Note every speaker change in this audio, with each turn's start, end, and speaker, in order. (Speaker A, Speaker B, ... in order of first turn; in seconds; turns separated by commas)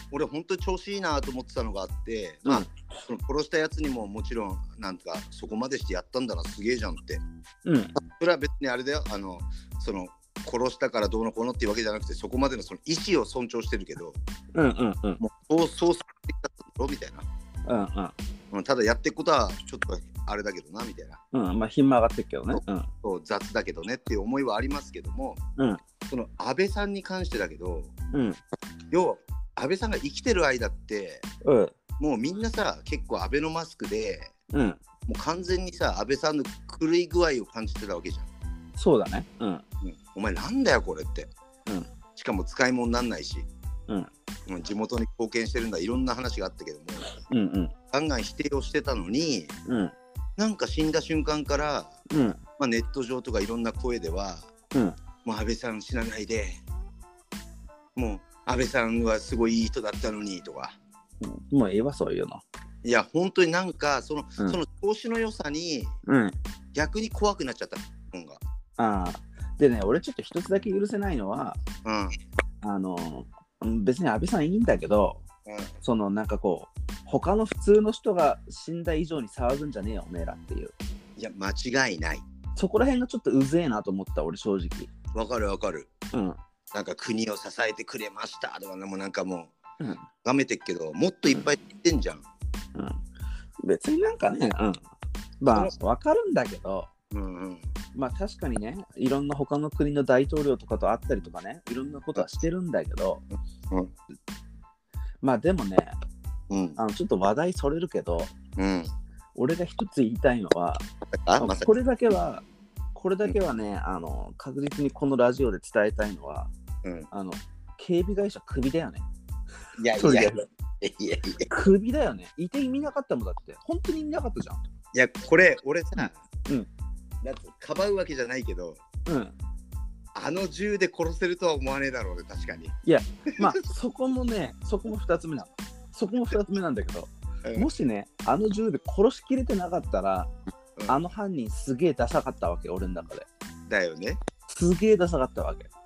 Speaker A: 0.1-7.2, Speaker B: 2.5-2.7, Speaker B: 7.6-7.9, Speaker A: 8.2-14.2, Speaker B: 14.5-15.2, Speaker A: 15.2-17.2, Speaker B: 17.6-18.1, Speaker A: 18.5-21.2, Speaker B: 21.3-22.9, Speaker A: 22.6-25.4, Speaker A: 26.1-27.9, Speaker B: 28.1-28.4, Speaker A: 28.9-31.2, Speaker B: 31.4-31.7, Speaker A: 32.0-34.3, Speaker B: 34.5-34.8, Speaker A: 35.1-38.3, Speaker B: 38.8-39.6, Speaker A: 39.8-41.3, Speaker A: 42.1-43.5, Speaker A: 44.5-47.1, Speaker B: 47.3-47.7, Speaker A: 47.9-49.5, Speaker B: 49.6-49.9, Speaker A: 50.4-54.5, Speaker B: 52.1-52.4, Speaker A: 55.2-56.6, Speaker A: 57.9-60.8, Speaker B: 61.2-62.4, Speaker A: 62.8-66.0, Speaker B: 66.0-66.3, Speaker A: 66.7-68.4, Speaker B: 68.8-71.6, Speaker A: 71.8-72.1, Speaker B: 72.6-75.2, Speaker A: 75.5-75.7, Speaker B: 75.8-80.7, Speaker A: 81.2-82.2, Speaker B: 82.5-84.9, Speaker A: 85.1-85.9, Speaker A: 86.7-89.5, Speaker B: 89.8-90.0, Speaker A: 90.2-92.2, Speaker B: 92.7-93.0, Speaker B: 93.6-94.8, Speaker B: 95.4-96.9, Speaker A: 97.1-97.7, Speaker B: 97.9-103.2, Speaker B: 105.2-105.9, Speaker A: 106.5-106.8, Speaker B: 106.8-108.3, Speaker A: 108.6-108.9, Speaker B: 109.3-110.8, Speaker A: 111.1-111.7, Speaker B: 111.4-116.5, Speaker B: 117.1-119.0, Speaker A: 119.8-121.5, Speaker B: 120.0-120.4, Speaker B: 121.5-124.6, Speaker A: 124.9-126.2, Speaker B: 126.0-126.7, Speaker A: 127.2-128.8, Speaker B: 129.1-129.3, Speaker A: 130.1-132.8, Speaker B: 132.8-140.3, Speaker B: 140.9-143.3, Speaker A: 143.7-144.2, Speaker B: 144.5-145.7